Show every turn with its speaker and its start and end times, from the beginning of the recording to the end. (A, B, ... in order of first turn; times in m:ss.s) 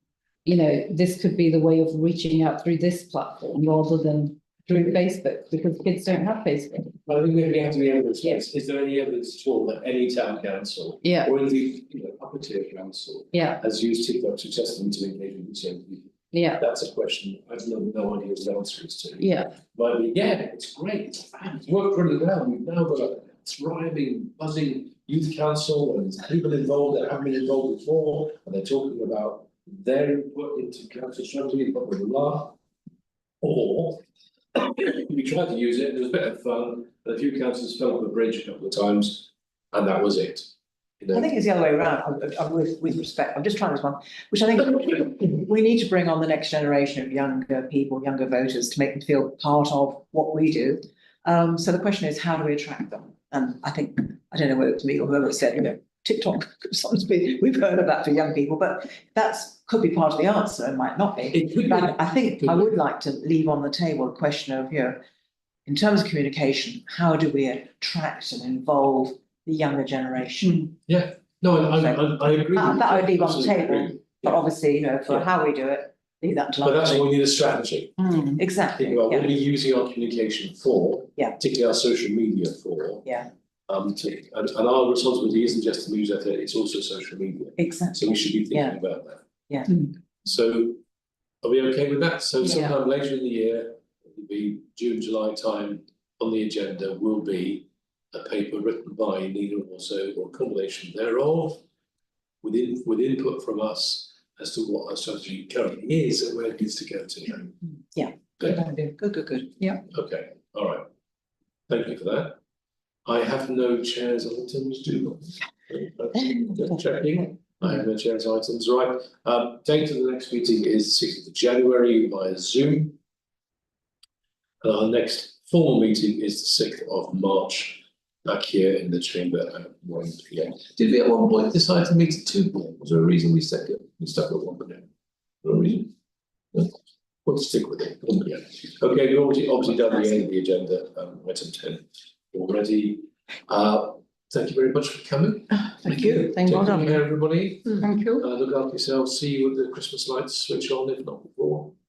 0:00.4-0:07.0 A
0:07.0-0:32.6 B
0:11.0-0:11.3 A
0:13.3-0:13.6 A
0:16.3-0:16.6 A
0:19.2-0:19.6 A
0:33.4-0:34.0 B
0:34.5-0:40.5 B
0:41.0-0:41.3 B
0:41.1-1:05.0 C
1:01.3-1:02.7 B
1:05.6-1:10.7 C
1:10.9-1:14.4 B
1:12.5-1:17.1 C
1:16.6-1:18.2 B
1:18.3-1:19.3 C
1:18.8-1:23.1 B
1:23.0-1:23.3 C
1:23.7-1:29.2 B
1:27.6-1:28.8 C
1:29.5-1:29.8 C
1:30.2-1:30.8 B
1:31.4-1:41.6 B
1:42.4-1:47.6 B
1:47.9-1:49.8 C
1:49.9-1:50.8 B
1:51.7-1:52.4 B
1:53.0-2:03.0 B
2:04.6-2:14.8 B
2:15.4-2:15.9 B
2:17.2-2:31.7 B
2:25.8-2:26.6 C
2:27.8-2:28.2 A